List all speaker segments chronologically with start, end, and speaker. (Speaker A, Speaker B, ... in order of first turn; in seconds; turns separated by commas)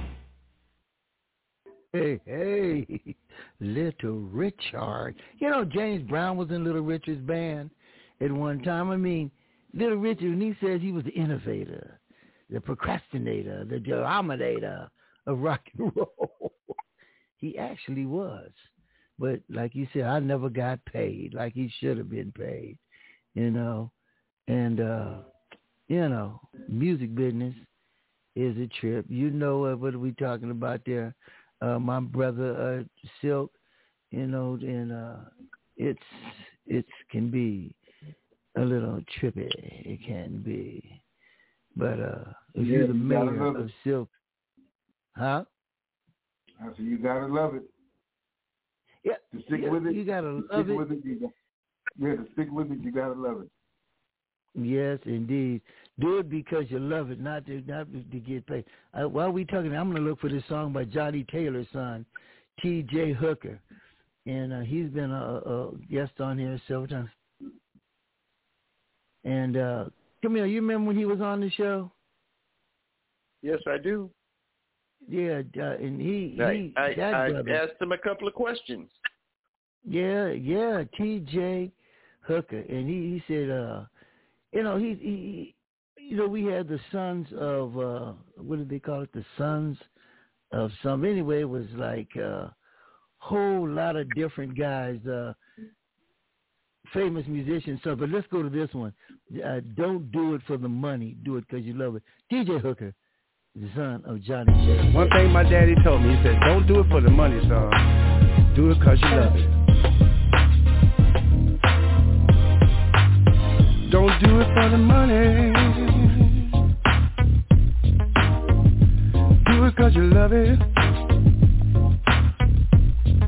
Speaker A: 1.9-16.5, Speaker A: 17.4-22.8, Speaker A: 23.3-23.9, Speaker A: 24.5-25.2, Speaker A: 25.9-27.7, Speaker A: 28.3-33.5, Speaker A: 34.1-37.8, Speaker A: 38.5-41.0, Speaker A: 41.7-44.1, Speaker B: 42.6-43.7, Speaker A: 45.1-45.5, Speaker B: 46.6-47.7, Speaker A: 49.0-50.9, Speaker B: 49.3-51.3, Speaker B: 52.0-53.5, Speaker A: 54.5-63.6, Speaker A: 64.2-67.1, Speaker A: 69.2-71.9, Speaker C: 73.4-74.1, Speaker A: 75.0-77.6, Speaker C: 76.4-78.9, Speaker A: 79.8-81.7, Speaker A: 82.2-83.9, Speaker A: 84.5-89.9, Speaker A: 90.5-92.5, Speaker A: 93.2-95.4, Speaker A: 96.8-102.9, Speaker A: 103.5-105.2, Speaker D: 104.9-107.9, Speaker D: 108.5-109.5, Speaker D: 113.8-116.4, Speaker D: 119.4-120.6